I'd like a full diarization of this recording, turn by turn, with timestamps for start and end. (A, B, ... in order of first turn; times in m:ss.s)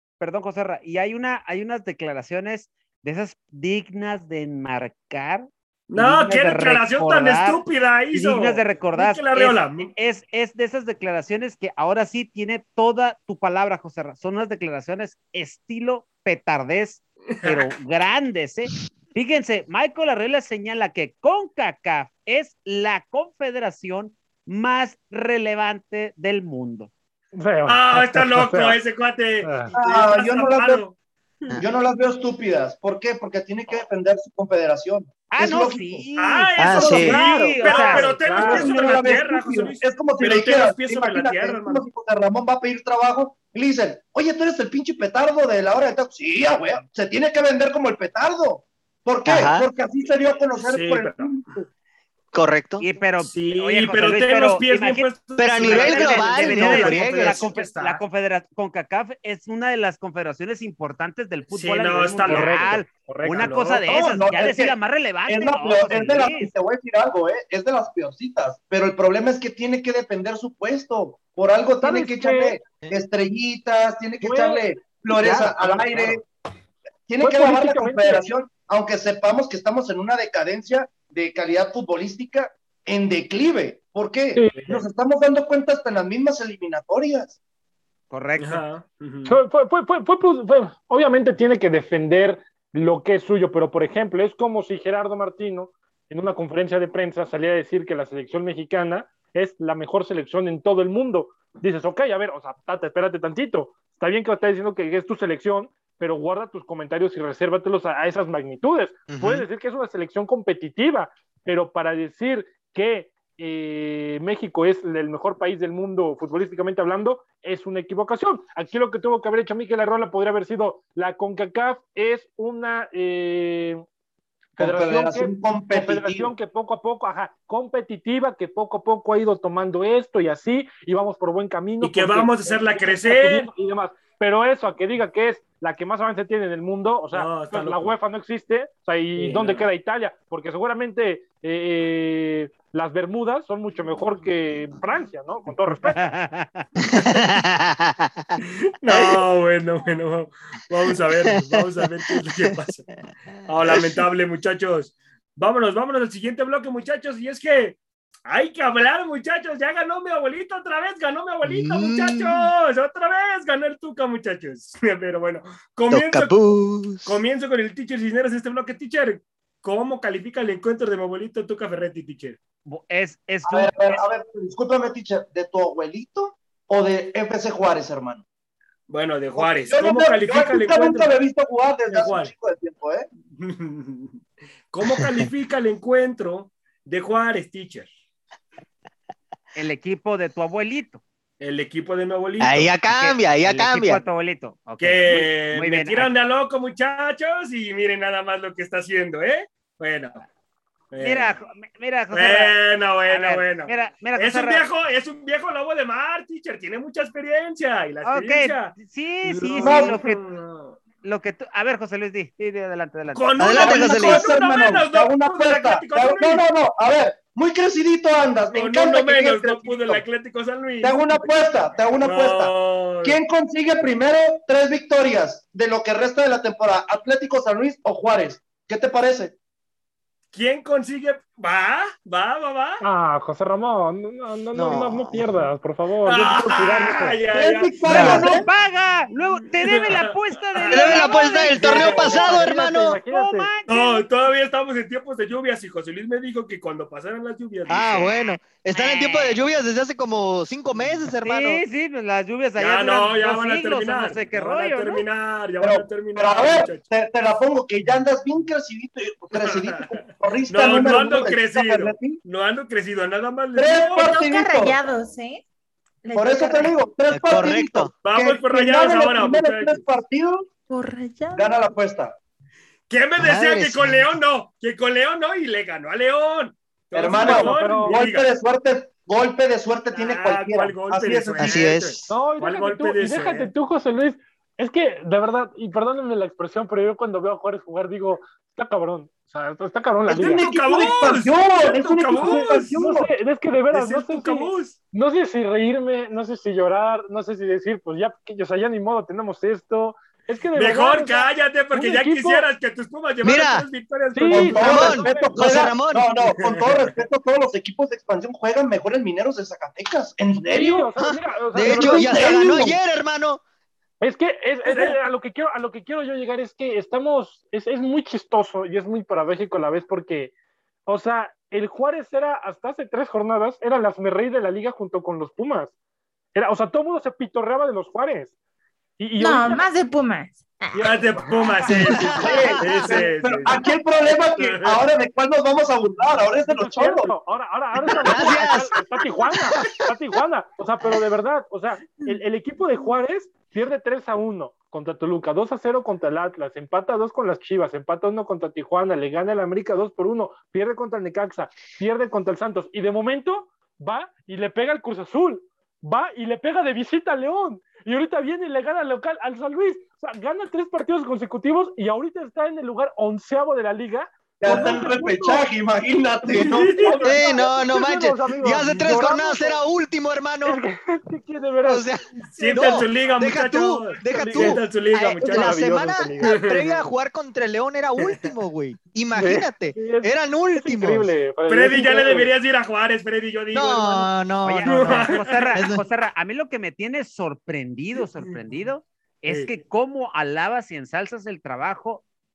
0:00.2-0:07.6 A
0:05.9-0:09.9 B
0:08.1-0:26.9 A
0:17.3-0:17.7 B
0:27.3-0:28.8 C
0:27.6-0:31.0 B
0:29.4-0:29.7 C
0:29.7-0:30.8 D
0:31.6-0:36.0 D
0:35.3-0:38.7 A
0:36.2-0:41.8 B
0:36.6-0:37.2 E
0:36.8-0:51.7 D
0:37.2-0:38.7 C
0:49.2-0:49.7 E
0:50.6-0:51.4 B
0:52.3-0:52.8 E
0:52.8-1:06.5 A
0:53.2-0:58.0 B
0:55.4-0:57.4 E
1:01.5-1:03.5 B
1:02.3-1:03.8 C
1:03.8-1:16.2 D
1:11.8-1:12.6 C
1:14.2-1:16.2 C
1:17.1-1:27.4 D
1:17.2-1:18.3 C
1:24.6-1:24.8 B
1:28.1-1:28.6 A
1:28.4-1:29.4 B
1:29.2-2:03.8 C
1:49.1-1:49.4 E
2:04.6-2:06.3 D
2:04.6-2:26.1 C
2:11.8-2:13.5 B
2:17.1-2:17.9 B
2:19.2-2:19.7 B
2:25.7-2:26.6 A
2:26.9-2:28.3 E
2:28.8-2:32.8 B
2:28.9-2:29.2 E
2:31.2-2:32.6 E
2:33.4-2:46.3 B
2:41.4-2:42.5 E
2:45.9-2:47.2 E
2:47.0-2:52.4 B
2:52.6-2:53.9 A
2:53.4-2:58.2 D
2:58.9-3:01.1 B
2:59.3-3:03.1 D
3:01.9-3:02.3 B
3:03.4-3:04.2 B
3:04.7-3:07.9 B
3:04.8-3:05.2 E
3:09.5-3:11.0 A
3:11.4-3:12.7 B
3:12.4-3:14.0 E
3:12.9-3:16.1 A
3:14.8-3:20.2 B
3:20.9-3:21.3 B
3:21.0-3:22.6 A
3:22.1-3:30.8 B
3:23.1-3:24.6 A
3:28.0-3:30.2 A
3:29.6-3:30.0 D
3:31.0-3:33.8 A
3:33.1-3:36.4 B
3:33.4-3:34.3 E
3:33.6-3:40.0 D
3:38.5-3:41.0 B
3:40.8-3:42.5 D
3:42.0-3:43.2 B
3:43.0-3:49.3 D
3:50.3-3:52.8 B
3:52.8-3:57.2 C
3:54.5-3:55.3 E
3:56.0-3:58.4 B
3:57.3-3:58.5 D
3:57.8-4:04.0 A
3:57.9-3:58.2 E
3:59.3-4:02.3 B
4:00.7-4:03.0 E
4:01.7-4:03.5 C
4:03.7-4:08.1 B
4:07.7-4:11.6 E
4:08.7-4:09.4 A
4:11.2-4:15.0 A
4:12.6-4:16.9 B
4:15.6-4:22.2 D
4:19.3-4:24.0 B
4:23.5-4:24.8 D
4:24.0-4:25.4 F
4:26.0-4:26.8 F
4:26.1-4:30.5 D
4:27.1-4:27.9 E
4:28.0-4:29.8 B
4:30.7-4:31.5 F
4:31.3-4:32.2 D
4:32.9-4:38.2 B
4:33.2-4:34.2 E
4:36.9-4:41.6 D
4:37.2-4:38.0 C
4:39.9-4:43.5 B
4:41.4-4:42.1 E
4:42.1-4:50.8 C
4:50.1-4:53.1 D
4:50.2-4:52.7 B
4:52.2-5:02.5 C
4:53.7-4:54.8 B
5:00.5-5:05.0 B
5:03.2-5:03.7 E
5:04.1-5:05.6 C
5:04.3-5:10.9 D
5:04.5-5:06.1 E
5:06.4-5:06.9 B
5:10.4-5:12.7 C
5:11.0-5:13.4 E
5:11.6-5:12.8 D
5:14.0-5:20.3 C
5:14.6-5:15.0 B
5:20.9-5:25.7 C
5:26.3-5:28.3 C
5:29.0-5:29.6 C
5:29.2-5:31.1 F
5:30.7-5:33.6 B
5:31.2-5:32.3 C
5:31.7-5:32.5 E
5:31.9-5:37.1 D
5:34.4-5:34.8 B
5:36.5-6:05.4 C
5:38.0-5:38.4 D
5:38.0-5:38.7 E
6:04.4-6:07.4 D
6:04.5-6:04.9 B
6:06.4-6:07.0 B
6:06.8-6:09.6 C
6:07.0-6:10.6 E
6:10.4-6:11.9 C
6:11.6-6:21.1 E
6:12.3-6:16.7 B
6:14.0-6:14.6 C
6:15.2-6:16.5 C
6:19.1-6:22.3 C
6:21.5-6:25.6 B
6:23.5-6:25.8 E
6:24.4-6:32.0 A